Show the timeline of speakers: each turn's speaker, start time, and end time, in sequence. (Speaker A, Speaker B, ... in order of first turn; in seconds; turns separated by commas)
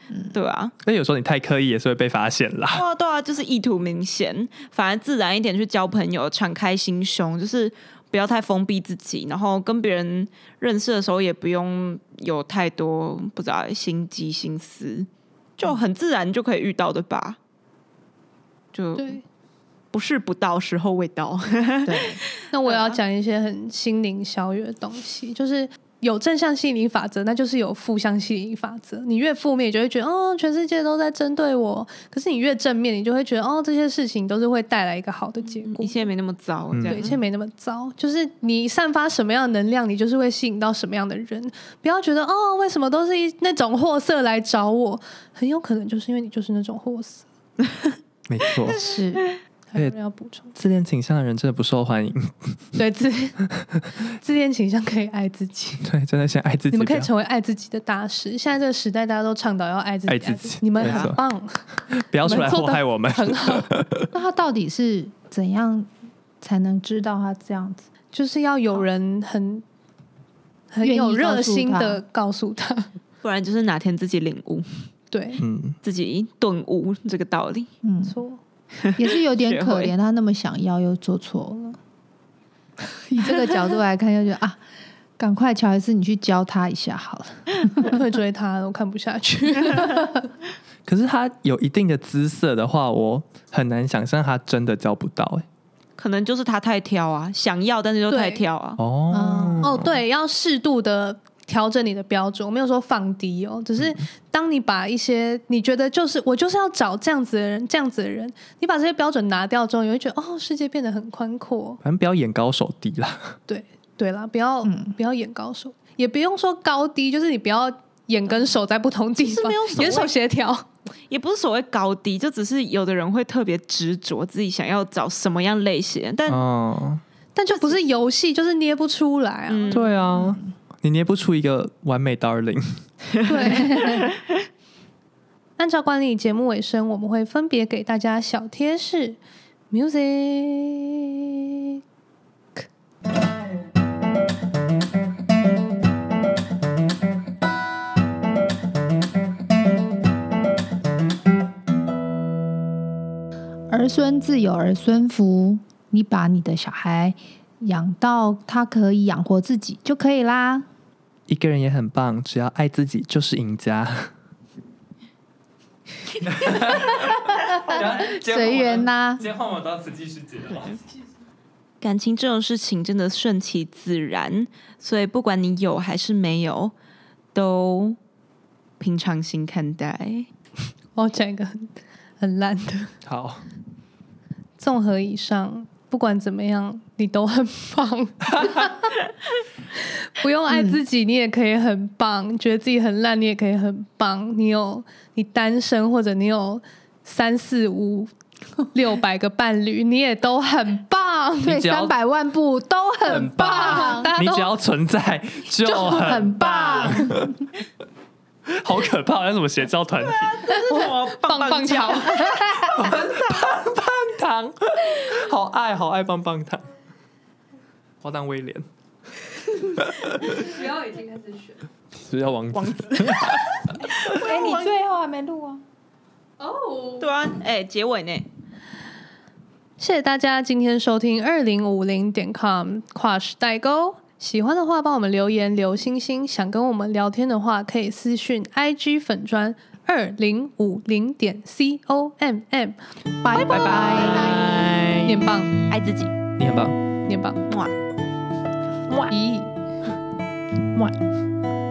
Speaker A: 0.3-0.7, Speaker B: 0.8-2.8, Speaker A: 2.7-17.4, Speaker A: 18.7-19.2, Speaker C: 18.9-19.2, Speaker A: 19.9-23.0, Speaker D: 21.8-22.2, Speaker C: 22.5-36.1, Speaker A: 35.6-37.2, Speaker B: 36.7-37.0, Speaker C: 36.9-47.2, Speaker B: 48.3-48.8, Speaker D: 48.7-49.2, Speaker C: 49.7-50.5, Speaker B: 50.5-52.5, Speaker C: 52.8-53.4, Speaker C: 54.1-55.9, Speaker B: 55.8-57.1, Speaker C: 56.7-63.7, Speaker B: 60.1-61.2, Speaker A: 60.8-61.1, Speaker B: 62.0-64.1, Speaker D: 64.1-65.9, Speaker D: 66.4-67.9, Speaker C: 68.1-69.6, Speaker C: 70.7-72.9, Speaker D: 70.8-72.0, Speaker A: 73.2-74.7, Speaker C: 75.1-75.4, Speaker B: 75.4-75.8, Speaker A: 75.8-77.7, Speaker D: 77.8-78.2, Speaker C: 78.1-78.4, Speaker A: 78.9-79.9, Speaker D: 79.0-81.8, Speaker D: 82.9-84.6, Speaker D: 85.2-88.0, Speaker C: 87.8-90.1, Speaker B: 90.9-95.4, Speaker A: 96.0-98.8, Speaker C: 98.1-98.4, Speaker B: 98.8-100.0, Speaker D: 99.1-99.8, Speaker C: 99.6-111.8, Speaker B: 111.8-113.4, Speaker C: 113.5-120.7, Speaker D: 114.6-114.9, Speaker A: 119.2-120.1, Speaker A: 121.1-126.4, Speaker B: 126.3-127.0, Speaker C: 127.3-129.8, Speaker A: 129.5-129.9, Speaker B: 129.7-132.8, Speaker D: 130.1-130.4, Speaker A: 133.2-134.2, Speaker C: 133.2-134.1, Speaker C: 135.6-139.2, Speaker C: 139.7-141.5, Speaker D: 153.7-160.7, Speaker B: 161.3-164.1, Speaker B: 166.2-170.8, Speaker D: 167.1-169.2, Speaker A: 171.8-176.7, Speaker A: 177.3-178.0, Speaker A: 178.8-180.3, Speaker C: 180.9-182.9, Speaker B: 183.1-183.4, Speaker C: 184.6-188.7, Speaker B: 188.4-188.7, Speaker C: 189.8-198.1, Speaker D: 190.5-190.8, Speaker C: 198.7-201.6, Speaker D: 201.4-204.1, Speaker B: 201.4-201.9, Speaker B: 203.1-207.3, Speaker C: 203.3-204.5, Speaker C: 205.6-207.1, Speaker D: 205.9-207.3, Speaker B: 208.5-210.5, Speaker A: 210.1-212.4, Speaker C: 210.5-212.8, Speaker B: 212.6-216.7, Speaker B: 218.0-218.6, Speaker B: 219.6-220.5, Speaker C: 220.3-221.6, Speaker B: 221.9-223.5, Speaker A: 222.5-223.4, Speaker D: 224.1-225.6, Speaker A: 224.1-224.7, Speaker C: 226.4-227.1, Speaker A: 227.0-228.3, Speaker C: 229.8-242.8, Speaker D: 243.2-244.7, Speaker A: 243.3-244.6, Speaker B: 243.5-245.1, Speaker C: 245.0-245.5, Speaker A: 245.7-246.1, Speaker B: 246.4-246.8, Speaker C: 247.1-247.4, Speaker C: 249.1-249.5